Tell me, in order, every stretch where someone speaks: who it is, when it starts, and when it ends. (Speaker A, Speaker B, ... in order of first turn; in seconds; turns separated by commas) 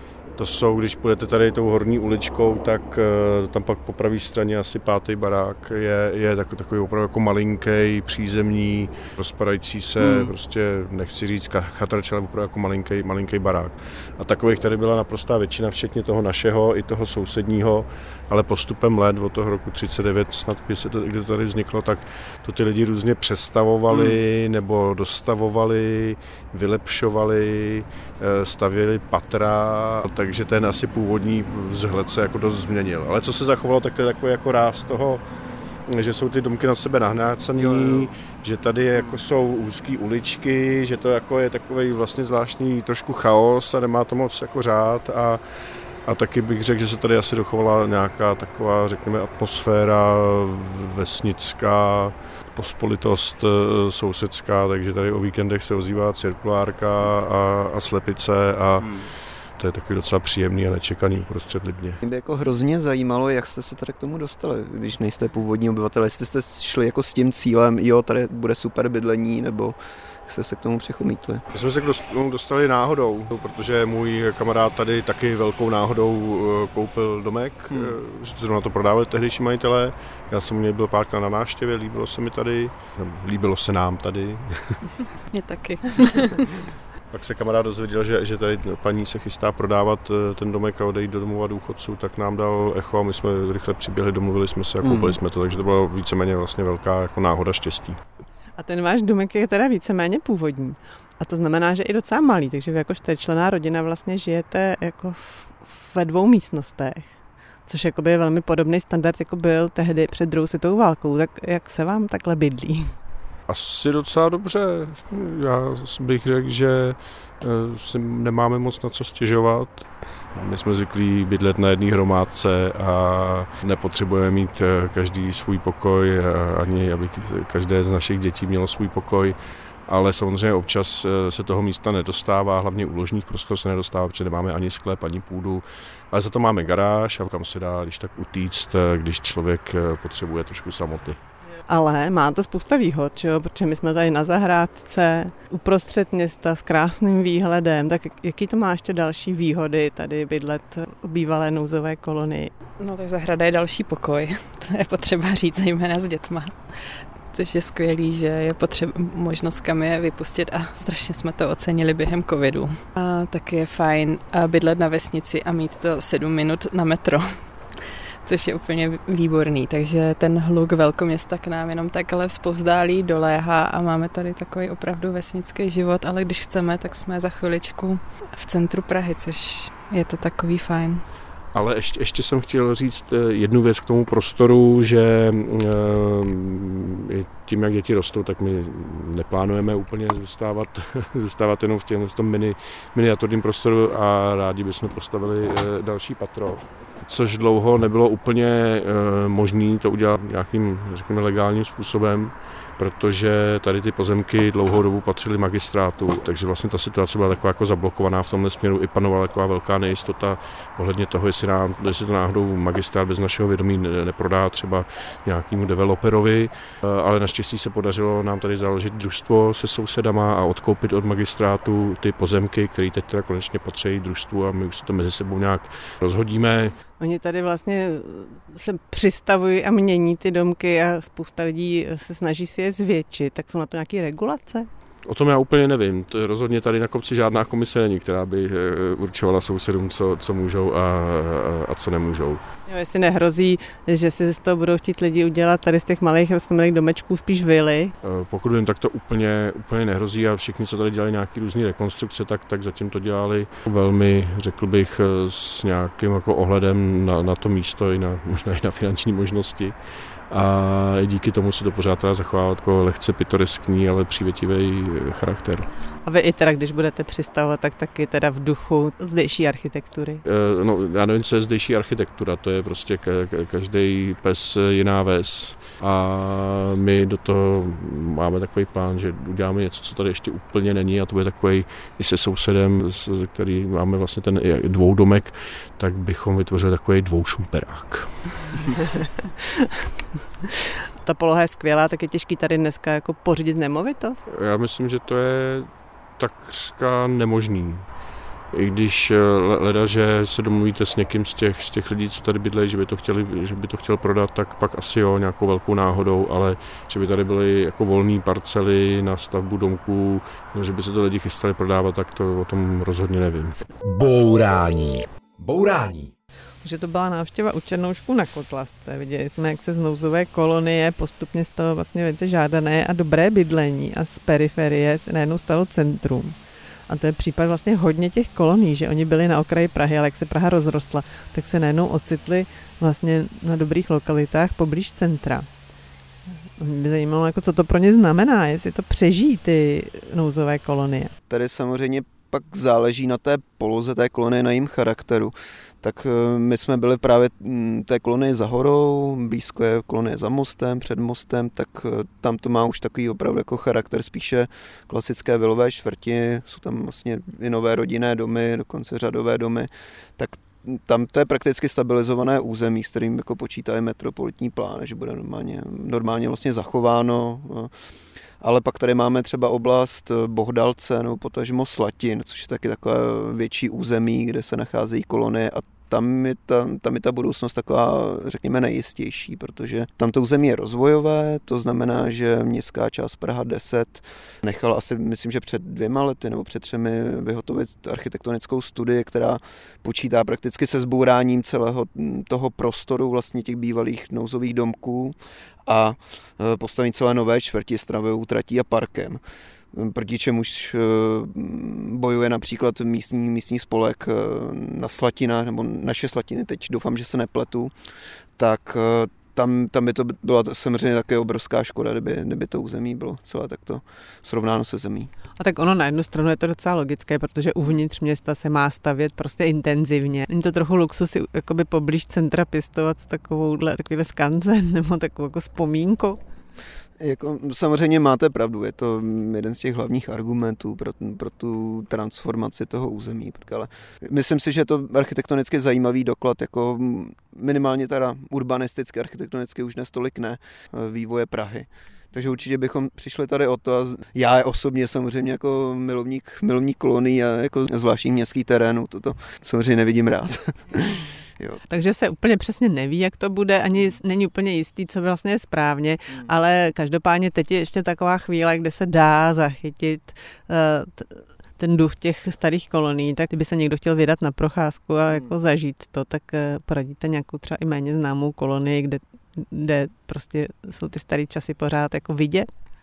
Speaker A: 0.4-35.2, Speaker B: 10.0-10.3, Speaker B: 23.9-24.2, Speaker A: 35.9-45.4, Speaker B: 37.6-38.1, Speaker A: 46.0-62.0, Speaker B: 62.0-71.4, Speaker A: 71.5-84.9, Speaker C: 85.3-86.5, Speaker A: 87.1-98.0, Speaker B: 94.8-95.1, Speaker D: 98.6-107.1, Speaker D: 107.7-112.9, Speaker A: 113.5-129.3, Speaker A: 129.9-141.2, Speaker D: 141.7-152.5, Speaker C: 152.8-181.0, Speaker A: 181.5-226.8, Speaker D: 227.0-234.7, Speaker A: 235.1-242.4, Speaker D: 242.7-247.9, Speaker A: 248.0-259.7, Speaker A: 260.3-265.7, Speaker D: 266.0-270.2, Speaker A: 270.2-288.5, Speaker D: 291.0-294.2, Speaker A: 294.3-297.9, Speaker A: 298.5-313.6, Speaker E: 313.8-316.1, Speaker D: 316.6-326.4, Speaker D: 326.9-335.5, Speaker D: 336.6-341.1, Speaker B: 341.3-367.7, Speaker B: 368.4-399.2, Speaker B: 399.7-407.7, Speaker B: 408.4-415.1, Speaker D: 415.4-426.2, Speaker B: 427.0-451.6, Speaker D: 451.7-472.5